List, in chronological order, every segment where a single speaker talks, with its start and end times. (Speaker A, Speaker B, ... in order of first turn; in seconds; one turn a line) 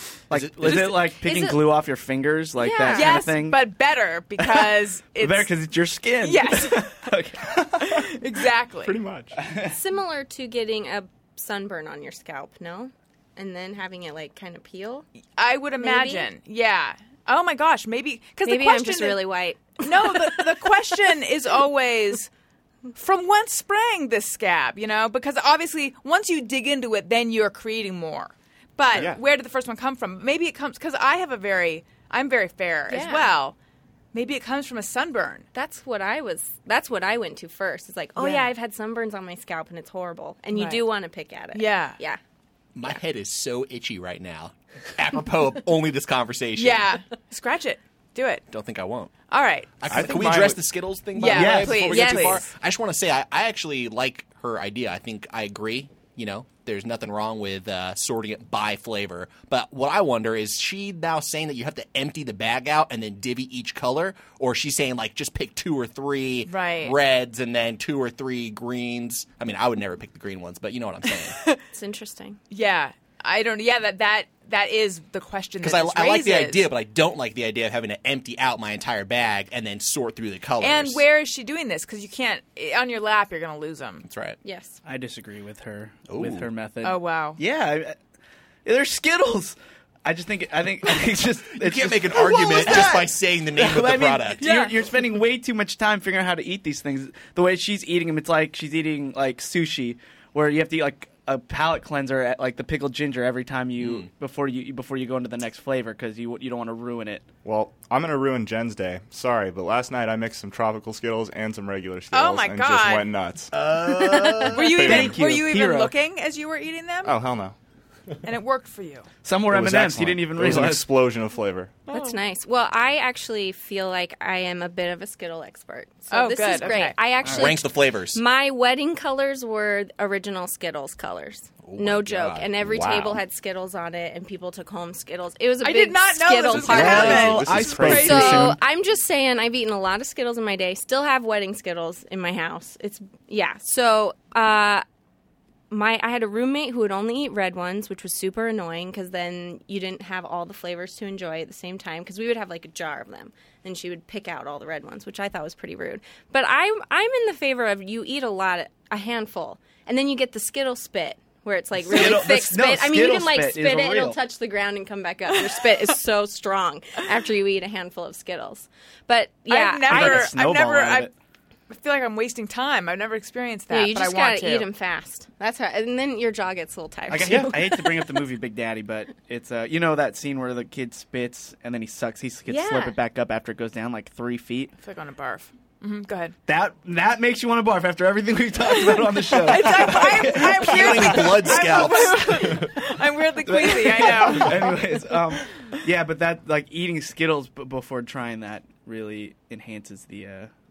Speaker A: 0.3-3.6
Speaker B: 0.3-0.9
Speaker C: 1.2-1.6
Speaker C: 2.6-3.2
Speaker D: 2.9-5.5
Speaker A: 4.4-7.9
Speaker D: 6.2-7.0
Speaker D: 7.8-9.0
Speaker E: 8.8-9.4
Speaker A: 9.4-9.8
Speaker C: 9.7-15.1
Speaker D: 15.4-22.3
Speaker C: 15.8-16.3
Speaker C: 18.4-20.6
Speaker D: 22.9-33.6
Speaker E: 28.9-29.2
Speaker C: 32.9-33.3
Speaker D: 34.1-35.5
Speaker C: 35.5-42.2
Speaker D: 38.2-38.5
Speaker D: 40.5-40.9
Speaker D: 41.5-42.0
Speaker B: 42.8-47.0
Speaker D: 46.6-48.4
Speaker B: 48.5-49.1
Speaker D: 49.3-49.7
Speaker B: 49.8-71.4
Speaker A: 49.9-50.6
Speaker E: 49.9-50.6
Speaker D: 51.1-52.5
Speaker A: 51.3-52.0
Speaker C: 51.9-52.4
Speaker D: 66.5-66.9
Speaker D: 71.1-71.6
Speaker C: 71.7-72.4
Speaker D: 72.5-76.7
Speaker B: 75.6-81.0
Speaker D: 80.6-84.1
Speaker B: 84.1-84.4
Speaker C: 84.4-84.8
Speaker A: 84.8-88.0
Speaker B: 86.1-86.5
Speaker D: 86.8-87.4
Speaker A: 88.7-107.3
Speaker B: 91.6-94.5
Speaker D: 94.4-94.8
Speaker B: 103.8-104.1
Speaker E: 107.4-115.2
Speaker D: 112.1-113.1
Speaker B: 113.5-114.7
Speaker D: 114.5-117.2
Speaker A: 114.8-115.9
Speaker E: 117.0-117.5
Speaker D: 118.2-119.1
Speaker A: 119.2-120.9
Speaker E: 119.5-121.8
Speaker D: 121.9-122.2
Speaker C: 121.9-144.8
Speaker D: 126.1-127.0
Speaker A: 127.2-127.5
Speaker B: 127.2-128.2
Speaker B: 131.7-132.5
Speaker E: 132.6-133.2
Speaker D: 135.6-138.6
Speaker E: 136.5-138.5
Speaker A: 136.6-138.6
Speaker C: 145.7-170.3
Speaker A: 161.8-164.2
Speaker D: 169.5-171.1
Speaker A: 169.9-171.1
Speaker D: 171.7-174.7
Speaker C: 173.7-178.1
Speaker A: 177.1-184.8
Speaker C: 182.5-183.0
Speaker D: 184.8-186.3
Speaker A: 186.5-192.4
Speaker D: 188.7-195.0
Speaker B: 189.8-192.7
Speaker A: 193.4-200.5